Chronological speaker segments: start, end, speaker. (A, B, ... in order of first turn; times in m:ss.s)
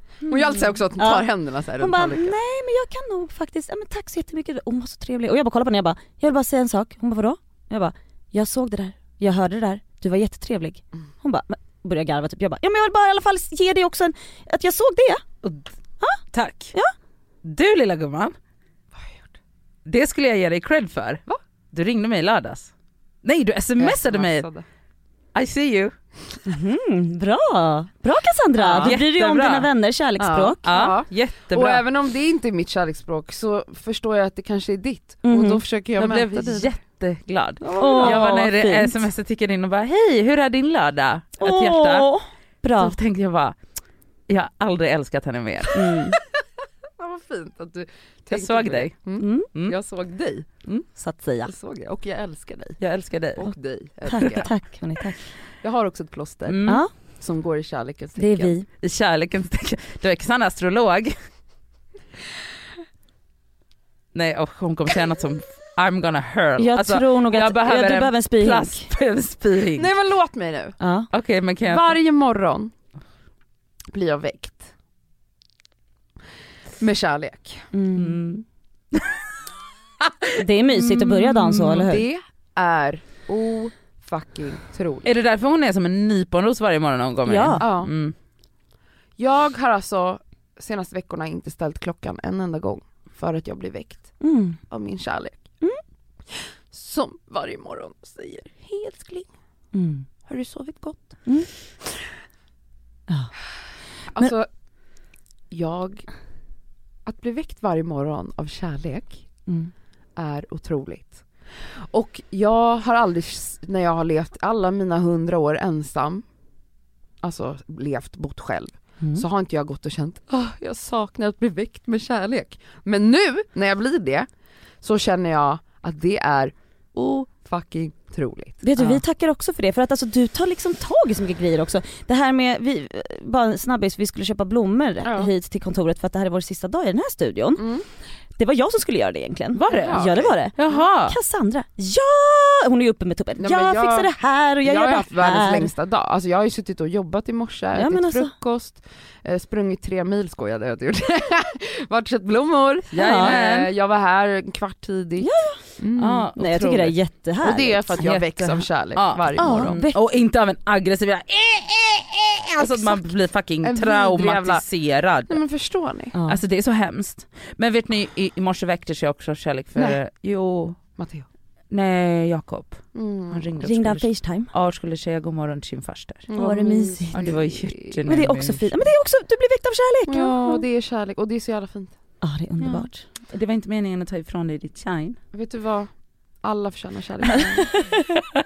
0:00.2-0:01.3 A
0:00.3-0:02.4 B
0:01.8-0:15.2 A
0:15.4-0:15.7 C
0:16.3-0:16.7 C
0:17.4-0:18.3 C
0:19.0-0:19.2 B
0:19.8-0:22.7 C
0:23.2-0:24.5 C
0:23.8-0:24.6 B
0:25.3-0:25.9 C
0:26.4-0:30.7 A
0:28.6-0:28.9 B
0:28.8-0:29.7 C
0:30.2-0:36.8 B
0:30.6-0:31.8 C
0:35.2-0:35.6 A
0:36.0-0:42.1 C
0:37.6-0:38.3 B
0:37.8-0:39.1 A
0:41.4-0:43.0 A
0:42.7-0:43.5 C
0:44.3-0:45.8 C
0:45.7-0:46.2 A
0:47.0-0:50.5 B
0:48.3-0:49.0 C
0:49.2-0:49.5 A
0:50.6-0:51.5 C
0:51.4-0:52.8 B
0:52.8-0:53.5 C
0:53.4-0:54.5 B
0:54.0-0:55.2 A
0:54.1-0:54.4 C
0:55.6-0:58.5 B
0:56.4-0:56.8 C
0:56.7-0:56.9 A
0:58.2-0:58.7 A
0:58.8-1:01.2 C
1:04.1-1:09.9 C
1:06.6-1:08.9 A
1:09.8-1:10.8 B
1:10.8-1:11.1 A
1:11.1-1:11.9 C
1:11.6-1:12.7 B
1:13.9-1:14.7 B
1:16.8-1:17.7 B
1:17.7-1:18.3 A
1:18.0-1:18.4 C
1:18.9-1:19.2 C
1:20.0-1:21.8 C
1:20.4-1:22.0 A
1:21.7-1:25.1 B
1:25.0-1:28.1 C
1:27.2-1:27.6 A
1:27.6-1:27.9 B
1:29.2-1:35.5 B
1:34.2-1:34.6 A
1:36.3-1:39.3 B
1:39.7-1:40.1 A
1:40.2-1:41.2 B
1:44.1-1:44.5 B
1:45.5-1:46.1 B
1:47.0-1:49.2 B
1:49.5-1:49.7 A
1:50.2-1:51.2 B
1:51.9-1:56.2 B
1:57.2-2:04.3 B
2:04.8-2:09.0 B
2:08.6-2:17.7 A
2:15.0-2:15.3 B
2:17.6-2:17.8 B
2:18.4-2:25.7 A
2:19.5-2:21.2 C
2:19.7-2:20.8 B
2:23.4-2:24.1 B
2:24.6-2:36.2 B
2:27.7-2:28.3 A
2:32.9-2:33.7 C
2:33.0-2:33.3 A
2:35.2-2:35.6 A
2:36.0-2:37.0 C
2:36.4-2:38.0 A
2:37.4-2:39.8 B
2:38.0-2:45.4 C
2:39.4-2:40.0 A
2:42.6-2:43.0 B
2:43.6-2:44.6 B
2:45.3-2:46.1 B
2:46.1-2:46.4 A
2:46.3-2:50.8 C
2:49.7-2:50.0 B
2:51.0-2:51.2 B
2:51.7-2:56.3 C
2:52.9-2:53.5 B
2:53.6-2:54.5 A
2:56.3-2:58.4 B
2:56.3-2:57.2 A
2:57.1-2:58.7 C
2:58.1-3:00.6 A
3:00.1-3:01.9 B
3:02.2-3:03.0 A
3:02.6-3:05.2 C
3:05.3-3:07.9 B
3:07.6-3:08.2 A